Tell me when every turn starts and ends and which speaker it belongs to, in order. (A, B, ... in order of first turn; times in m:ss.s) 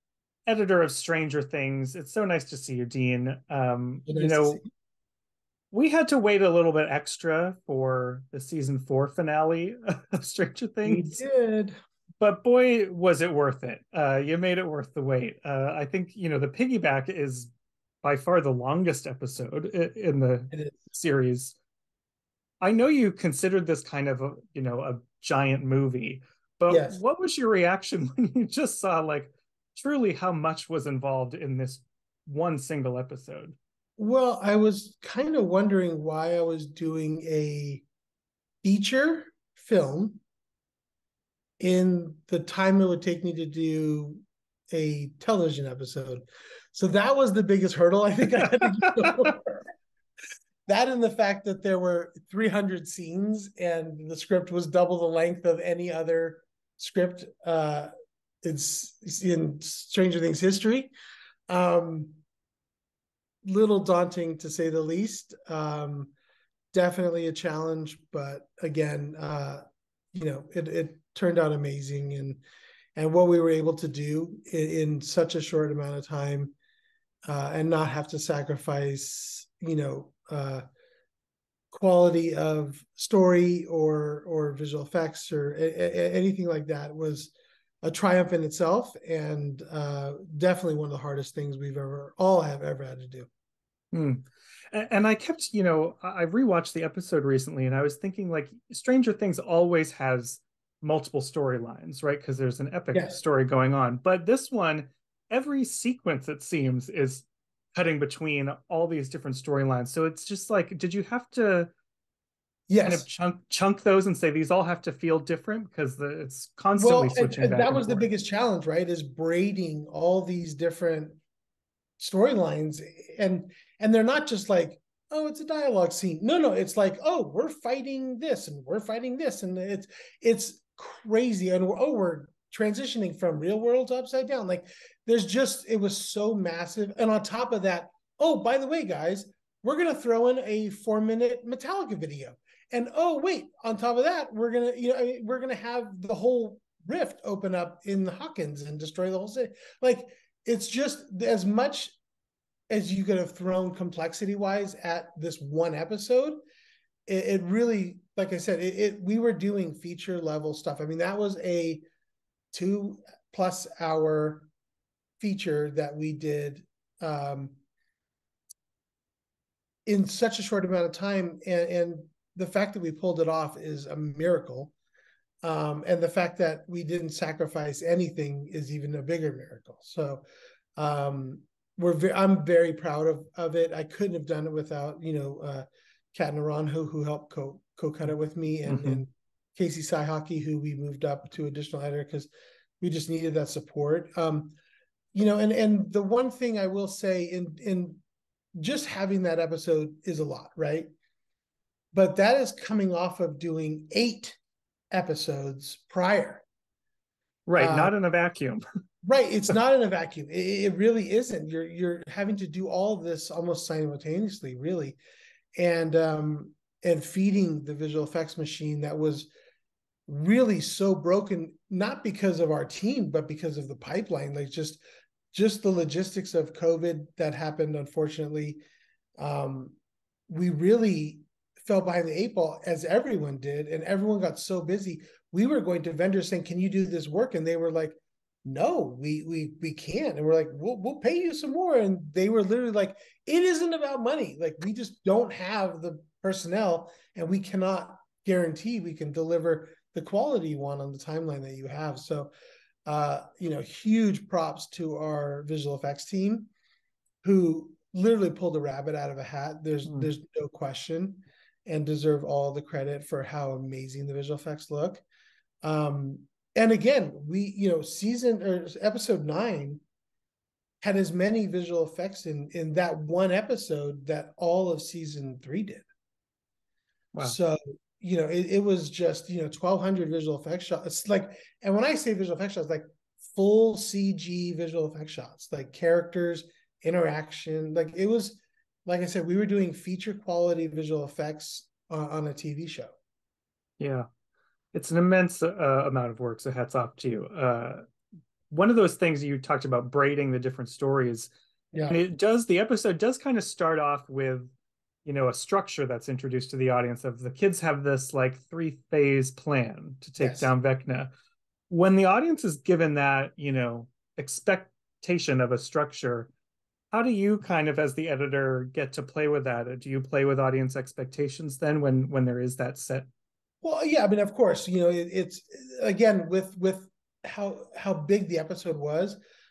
0:00.5-0:04.6 A
0:04.1-0:04.7 B
0:05.7-0:11.2 A
0:10.8-0:11.7 B
0:12.2-0:17.5 A
0:18.0-0:21.6 A
0:20.5-0:20.9 B
0:22.6-0:33.6 A
0:26.7-0:27.0 B
0:34.0-0:37.8 B
0:38.6-0:40.2 B
0:41.6-0:49.6 B
0:48.8-0:49.1 A
0:50.7-0:57.9 B
0:58.4-1:00.9 B
1:01.5-1:02.2 B
1:03.4-1:06.1 B
1:06.7-1:09.6 B
1:10.1-1:12.4 B
1:13.0-1:16.6 B
1:17.3-1:20.6 B
1:21.7-1:33.3 B
1:33.9-1:51.7 A
1:42.9-1:43.2 B
1:52.7-1:53.1 B
1:52.8-1:58.1 A
1:56.8-2:01.2 B
2:02.0-2:32.0 B
2:32.7-2:36.4 B
2:37.1-2:41.8 B
2:42.5-2:44.5 B
2:45.2-2:47.6 B
2:49.9-2:54.7 B
2:55.4-3:00.2 B
3:00.8-3:12.3 B
3:08.7-3:09.0 A
3:12.8-3:14.6 B
3:15.1-3:18.0 B
3:18.6-3:20.9 B
3:21.9-3:24.4 B
3:24.9-3:26.5 B
3:27.5-3:28.6 A
3:27.6-3:27.9 B
3:29.0-3:35.0 B
3:35.6-3:39.3 B
3:40.1-3:44.8 B
3:45.3-3:48.6 B
3:49.2-3:49.8 B
3:50.3-4:12.3 B
4:12.9-4:16.5 B
4:17.2-4:25.0 B
4:25.6-4:29.8 B
4:30.8-4:35.9 B
4:37.2-4:53.0 B
4:53.8-4:54.1 A
4:54.7-4:57.8 A
4:58.5-5:01.3 A
5:01.7-5:02.0 B
5:01.9-5:04.5 A
5:05.0-5:11.1 A
5:10.2-5:10.5 B
5:11.7-5:16.3 A
5:16.9-5:23.1 A
5:23.6-5:29.2 B